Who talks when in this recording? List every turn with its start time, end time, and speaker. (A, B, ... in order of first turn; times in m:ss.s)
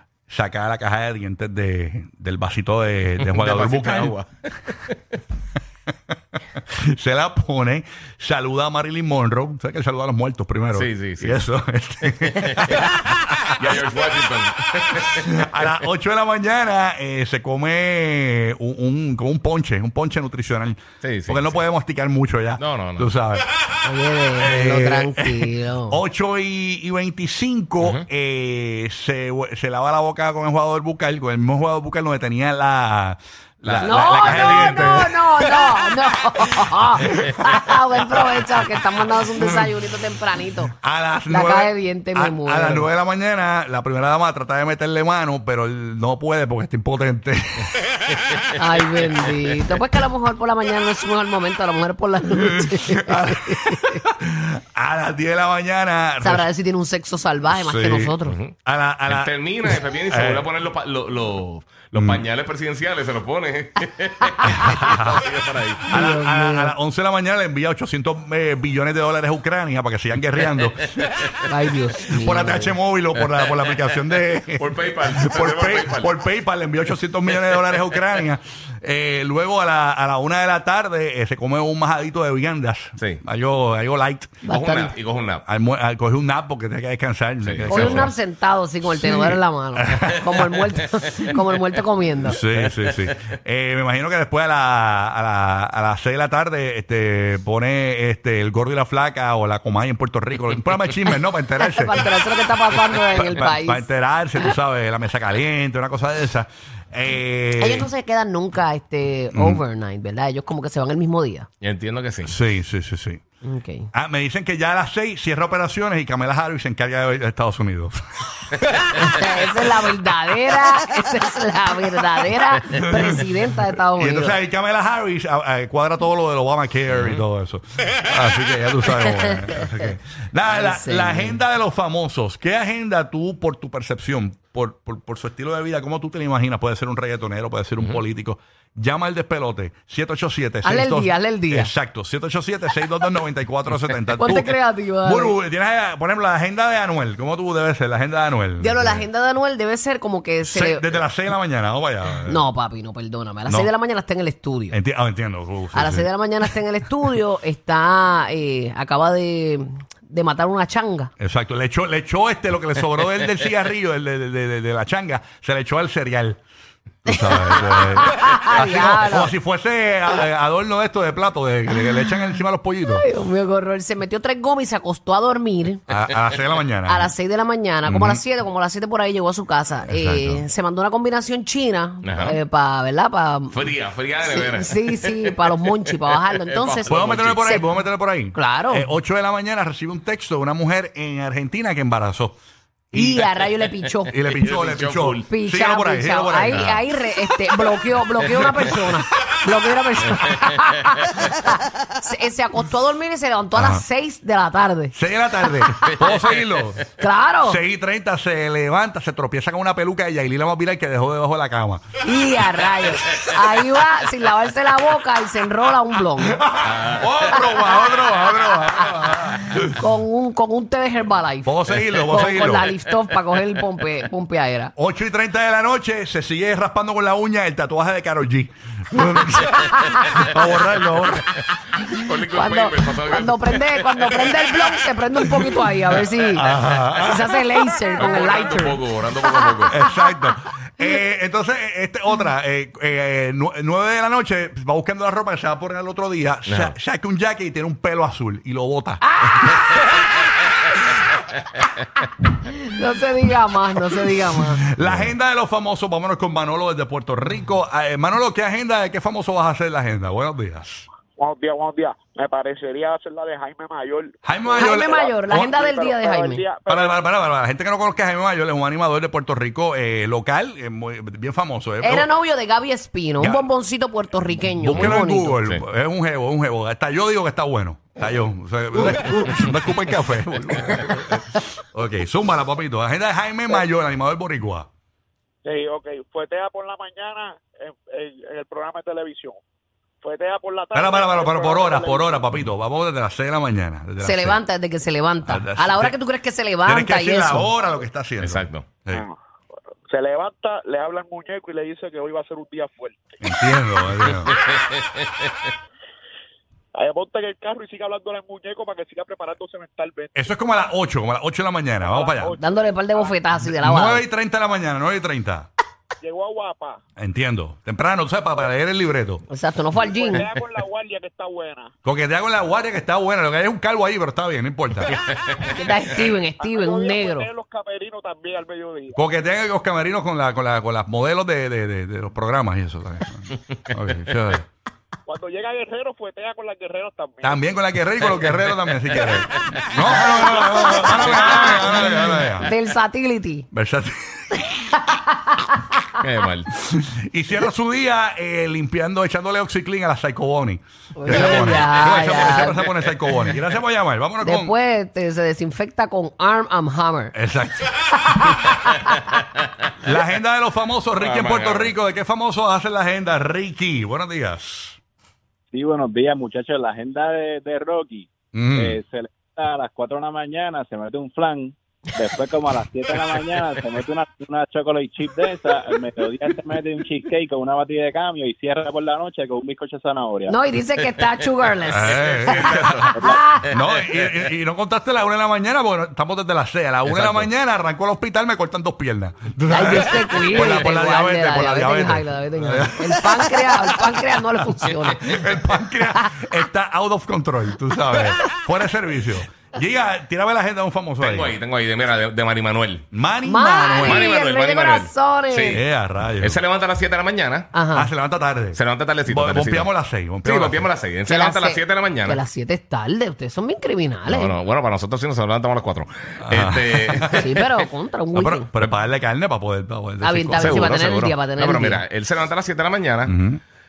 0:00.3-0:04.2 A
0:03.2-0:05.0 B
0:06.6-0:13.6 A
0:10.7-0:11.4 B
0:12.2-0:12.9 B
0:13.5-0:15.5 B
0:15.2-0:23.5 A
0:21.0-0:21.6 B
0:22.6-0:23.1 B
0:23.8-0:26.0 C
0:24.4-0:35.7 A
0:27.8-0:28.1 B
0:33.6-0:35.1 B
0:33.8-0:40.7 C
0:36.7-0:38.6 A
0:39.2-0:39.8 A
0:40.8-0:47.8 A
0:41.3-0:42.9 C
0:48.6-0:54.0 C
0:52.3-0:56.5 A
0:56.2-0:58.4 C
0:57.5-1:00.5 A
0:58.2-0:58.5 B
0:59.1-1:05.8 B
1:02.0-1:02.2 A
1:04.4-1:05.2 A
1:05.9-1:11.2 A
1:05.9-1:06.8 C
1:11.0-1:11.3 B
1:11.5-1:12.8 C
1:12.1-1:24.5 A
1:13.4-1:13.8 B
1:14.6-1:16.2 B
1:17.3-1:17.8 B
1:24.4-1:24.9 C
1:24.5-1:25.5 B
1:25.5-1:28.1 A
1:27.4-1:28.1 B
1:27.7-1:32.4 C
1:28.8-1:30.6 A
1:32.3-1:42.1 A
1:32.5-1:33.1 B
1:41.6-1:43.9 C
1:43.1-1:47.9 A
1:47.6-1:51.5 C
1:49.3-1:49.6 A
1:51.6-1:52.4 B
1:52.2-1:53.2 A
1:53.4-1:53.9 C
1:53.9-1:59.2 A
1:59.0-2:04.4 C
2:02.7-2:03.3 A
2:04.0-2:29.1 A
2:06.9-2:07.2 B
2:09.0-2:09.9 C
2:10.5-2:11.4 C
2:20.6-2:21.7 C
2:24.2-2:25.4 C
2:28.6-2:30.9 C
2:30.4-2:32.4 A
2:32.3-2:34.8 C
2:33.5-2:33.7 A
2:34.7-2:36.5 A
2:35.7-2:41.1 C
2:41.2-2:46.4 A
2:47.0-2:53.1 A
2:47.1-2:49.3 C
2:52.8-2:55.8 C
2:55.9-2:57.1 A
2:56.9-3:03.6 C
2:57.8-2:58.2 A
2:59.9-3:00.4 A
3:02.0-3:02.4 B
3:03.5-3:05.6 B
3:04.2-3:07.7 C
3:06.4-3:07.4 B
3:06.9-3:12.4 A
3:08.3-3:08.9 C
3:12.9-3:14.1 C
3:13.0-3:13.3 B
3:14.1-3:16.8 A
3:14.1-3:15.3 B
3:15.3-3:26.0 C
3:16.5-3:16.8 B
3:23.5-3:23.8 A
3:24.9-3:26.9 A
3:26.0-3:26.8 B
3:27.0-3:27.6 C
3:27.4-3:31.9 A
3:32.0-3:36.4 C
3:36.3-3:39.8 A
3:36.6-3:37.5 B
3:39.7-3:44.7 C
3:41.4-3:42.8 A
3:44.8-3:51.2 A
3:49.7-3:50.2 C
3:51.8-3:54.3 B
3:52.0-4:00.0 C
3:56.4-3:57.4 A
3:58.0-3:59.8 B
3:59.7-4:09.6 A
4:06.5-4:06.8 B
4:09.0-4:09.8 C
4:12.5-4:14.6 C
4:14.6-4:20.9 A
4:14.8-4:15.1 B
4:21.2-4:27.0 D
4:24.2-4:25.5 A
4:24.6-4:26.5 C
4:26.7-4:32.1 A
4:31.8-4:35.5 C
4:33.2-4:33.5 A
4:34.6-4:44.7 A
4:34.7-4:35.6 B
4:45.4-4:49.4 D
4:50.0-4:52.2 D
4:50.7-4:54.4 A
4:54.0-4:57.5 C
4:55.2-4:56.0 A
4:56.7-4:59.1 A
4:58.2-4:58.7 B
4:59.8-5:03.1 D
5:03.2-5:04.3 A
5:04.3-5:04.9 B
5:06.8-5:10.2 D
5:10.2-5:12.3 A
5:11.8-5:13.1 D
5:12.4-5:14.0 C
5:13.4-5:15.5 A
5:16.0-5:16.8 D
5:17.0-5:19.2 A
5:19.3-5:20.3 C
5:19.8-5:21.7 D
5:21.8-5:25.0 A
5:25.5-5:27.3 C
5:26.4-5:29.0 D
5:29.0-5:34.4 A
5:35.1-5:37.4 D
5:37.2-5:42.5 A
5:38.0-5:40.1 B
5:40.6-5:43.5 C
5:41.1-5:42.4 B
5:43.5-5:44.8 A
5:44.8-5:45.6 C
5:46.0-5:46.5 B
5:46.5-5:54.5 A
5:51.0-5:52.6 C
5:51.1-5:52.0 B
5:54.2-5:57.2 C
5:57.1-5:58.3 A
5:58.0-5:58.9 C
5:59.8-6:04.8 A
6:01.0-6:01.7 B
6:05.5-6:20.4 E
6:08.3-6:08.8 A
6:12.9-6:13.7 B
6:16.0-6:16.4 B
6:20.3-6:23.4 C
6:21.7-6:22.9 A
6:21.8-6:24.0 B
6:23.5-6:41.4 A
6:26.9-6:27.3 B
6:29.5-6:35.4 C
6:30.3-6:30.6 B
6:35.9-6:36.4 C
6:41.0-6:42.8 B
6:42.9-6:44.1 A
6:43.2-6:45.6 C
6:43.8-6:45.6 B
6:45.5-6:46.4 A
6:46.2-6:47.5 B
6:47.5-6:47.9 C
6:47.7-6:50.7 A
6:48.5-6:49.7 B
6:50.2-6:52.2 B
6:51.1-6:54.4 C
6:54.1-6:57.5 B
6:56.2-6:57.3 A
6:57.2-6:58.5 C
6:58.2-7:00.6 A
7:00.0-7:01.8 C
7:00.4-7:03.1 B
7:03.0-7:03.4 A